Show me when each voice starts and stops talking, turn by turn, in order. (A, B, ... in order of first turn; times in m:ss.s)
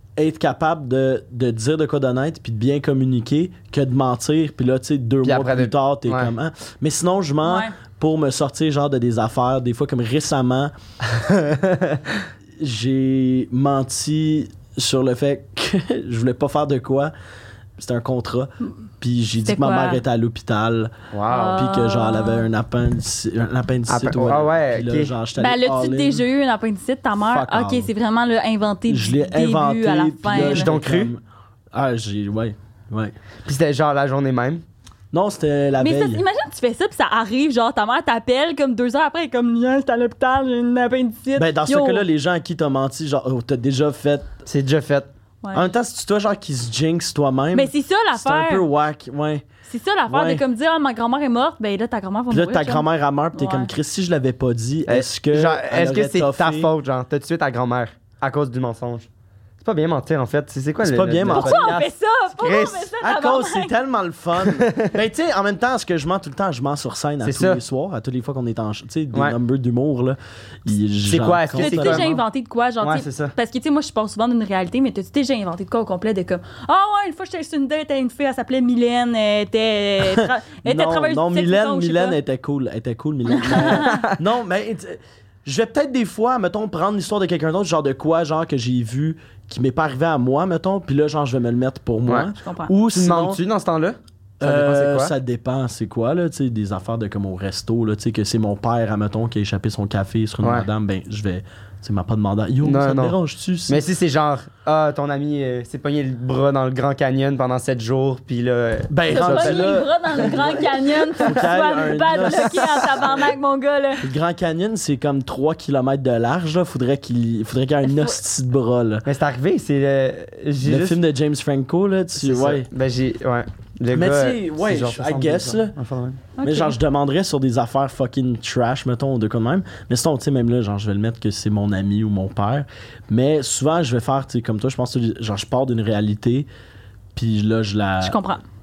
0:00.2-0:10.7 A
0:05.2-0:06.3 B
0:07.4-0:07.8 C
0:11.2-0:12.0 B
0:12.6-0:17.1 A
0:17.8-0:21.0 A
0:19.5-0:20.0 C
0:21.1-0:21.6 B
0:21.3-0:22.4 C
0:21.5-0:26.2 A
0:23.9-0:25.1 B
0:25.4-0:30.7 C
0:27.2-0:27.9 A
0:28.9-0:31.2 A
0:30.3-0:31.1 B
0:31.7-0:33.1 A
0:33.5-0:34.6 B
0:35.1-0:36.2 A
0:35.8-0:42.0 C
0:41.4-0:44.3 A
0:44.5-0:45.1 B
0:45.4-0:45.7 C
0:45.5-0:49.4 A
0:47.5-0:48.6 C
0:49.7-0:53.7 C
0:50.1-0:50.4 A
0:52.3-0:56.7 A
0:54.9-0:59.1 B
0:59.6-1:02.9 B
1:00.8-1:01.8 A
1:01.3-1:03.7 C
1:03.0-1:12.2 A
1:04.4-1:04.9 B
1:07.2-1:07.6 B
1:11.1-1:12.2 B
1:11.6-1:22.2 C
1:12.8-1:13.3 B
1:20.0-1:33.4 A
1:23.3-1:24.0 C
1:23.7-1:24.2 B
1:32.1-1:35.1 B
1:32.4-1:32.7 C
1:34.4-1:43.8 A
1:40.4-1:40.7 B
1:42.6-1:43.2 B
1:43.7-1:50.4 B
1:48.9-1:53.2 A
1:49.1-1:54.0 C
1:54.0-1:59.1 A
1:57.8-1:58.2 C
1:59.1-2:01.0 B
2:00.6-2:02.7 A
2:02.2-2:06.2 B
2:03.9-2:05.7 A
2:06.4-2:06.8 C
2:06.4-2:16.5 A
2:17.2-2:18.2 A
2:18.0-2:18.4 C